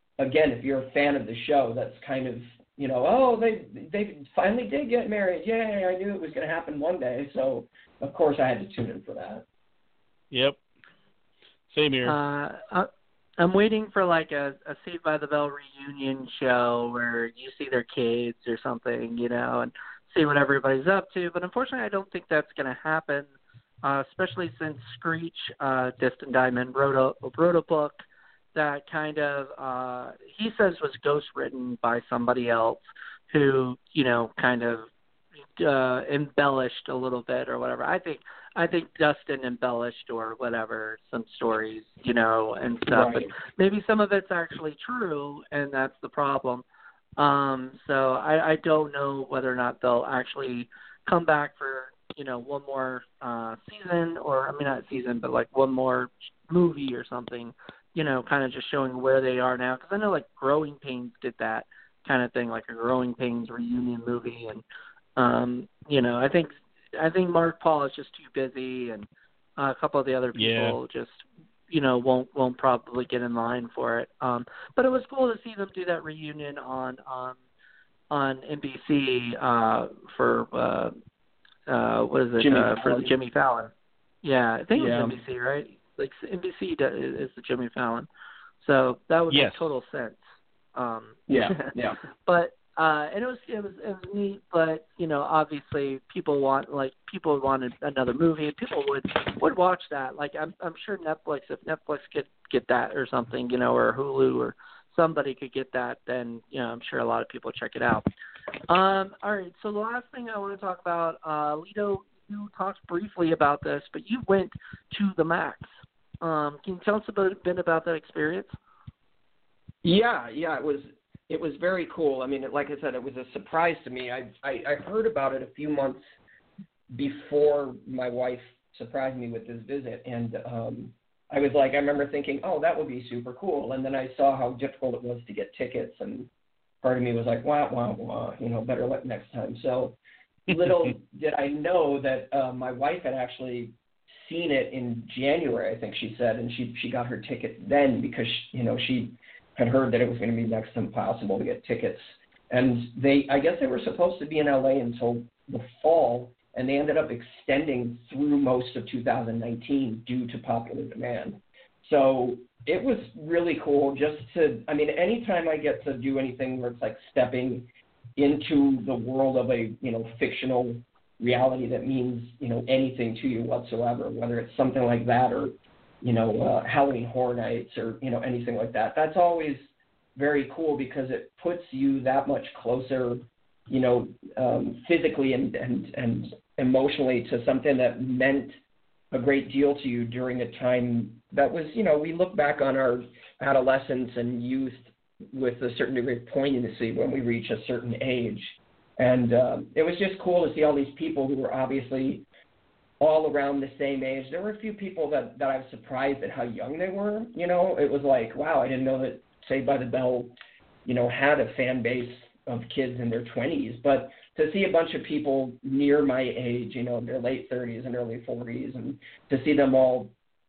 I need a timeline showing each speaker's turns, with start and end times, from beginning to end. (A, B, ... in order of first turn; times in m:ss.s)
0:00.2-0:09.4 A
0:10.3-0:10.6 B
0:11.7-0:12.2 B
0:12.0-0:12.9 C
0:13.4-0:23.3 C
0:23.8-0:34.9 C
0:35.6-0:46.6 C
0:42.9-0:43.3 A
0:47.2-1:04.6 C
1:05.2-1:17.4 C
1:10.3-1:10.8 B
1:18.1-1:20.9 C
1:21.7-1:23.7 C
1:22.4-1:23.1 A
1:24.2-1:28.1 C
1:24.7-1:25.2 A
1:28.6-1:30.2 C
1:29.3-1:29.7 B
1:30.7-1:31.7 C
1:31.3-1:32.0 A
1:32.2-1:48.0 C
1:48.7-1:55.7 C
1:56.2-1:58.5 C
1:59.8-2:06.0 A
2:06.9-2:16.3 A
2:16.8-2:59.6 A
2:20.5-2:20.9 B
3:00.2-3:08.5 A
3:09.1-3:22.2 A
3:23.0-3:30.3 A
3:30.8-3:40.1 A